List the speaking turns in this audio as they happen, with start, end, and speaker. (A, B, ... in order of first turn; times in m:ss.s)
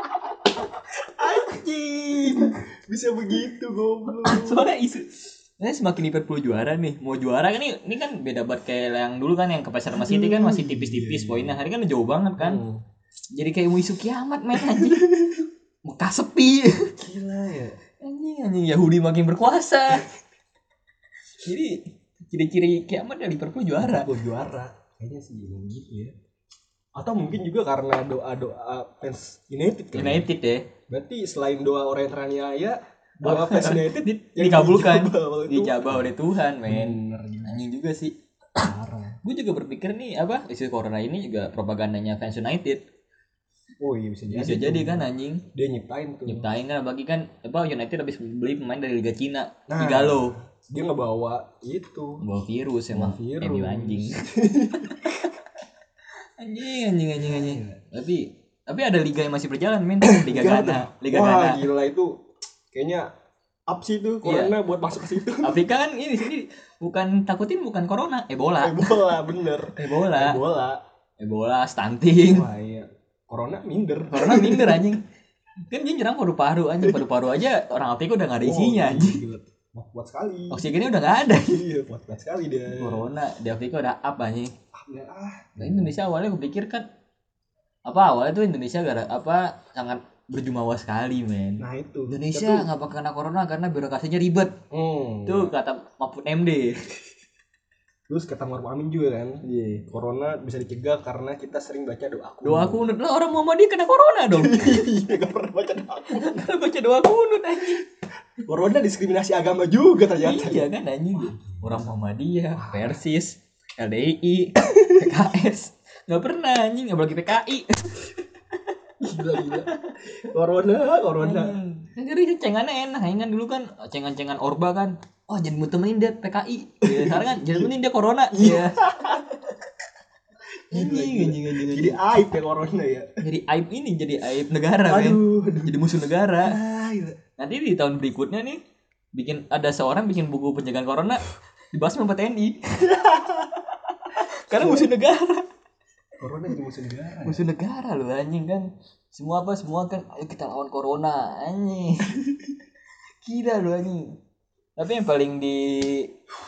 0:01.1-0:04.7 A
0:04.2-0:12.6 B
0:09.9-0:11.6 A
0:12.4-0:12.8 A
0:13.3-0:15.2 B
0:14.6-0:15.3 A
0:15.8-0:16.9 B
0:17.0-0:17.8 A
0:18.0-0:20.1 B
0:21.4-0:24.1 B
0:23.8-0:26.1 A
0:27.0-0:30.3 A
0:29.9-0:30.7 B
0:30.9-0:36.0 A
0:33.2-0:38.2 B
0:36.6-0:37.5 A
0:38.6-0:39.2 A
0:39.2-0:42.8 B
0:43.8-0:46.5 A
0:44.3-0:45.5 B
0:46.2-0:50.4 B
0:49.7-0:52.2 A
0:52.2-0:54.3 B
0:52.9-0:55.2 A
0:54.9-0:55.3 B
0:56.4-1:01.7 B
0:57.2-0:57.8 A
1:00.0-1:03.1 A
1:03.7-1:05.6 A
1:04.2-1:04.6 B
1:05.4-1:09.1 B
1:08.6-1:10.8 A
1:09.8-1:10.4 B
1:11.2-1:12.5 B
1:12.3-1:14.9 A
1:14.1-1:15.0 B
1:15.7-1:19.2 B
1:18.4-1:20.6 A
1:20.5-1:21.6 B
1:21.4-1:23.0 A
1:22.7-1:24.5 B
1:24.7-1:25.9 A
1:25.6-1:26.9 B
1:27.9-1:34.6 B
1:31.6-1:32.7 A
1:34.7-1:35.5 A
1:35.2-1:36.9 B
1:38.1-1:42.8 A
1:39.5-1:39.8 B
1:42.4-1:44.9 B
1:44.4-1:46.5 A
1:46.1-1:47.8 B
1:48.4-1:50.6 A
1:50.2-1:58.1 B
1:52.6-1:53.0 A
1:59.0-2:01.6 A
1:59.5-2:00.0 B
2:01.2-2:08.9 B
2:06.8-2:07.7 A
2:08.3-2:09.2 A
2:10.7-2:13.1 A
2:10.7-2:12.0 B
2:13.2-2:16.6 B
2:14.8-2:15.8 A
2:16.4-2:17.2 A
2:17.4-2:18.6 B
2:19.1-2:21.2 B
2:21.7-2:25.5 B
2:24.5-2:24.9 A
2:26.2-2:27.4 A
2:27.2-2:32.2 B
2:33.2-2:34.2 B
2:34.8-2:36.1 B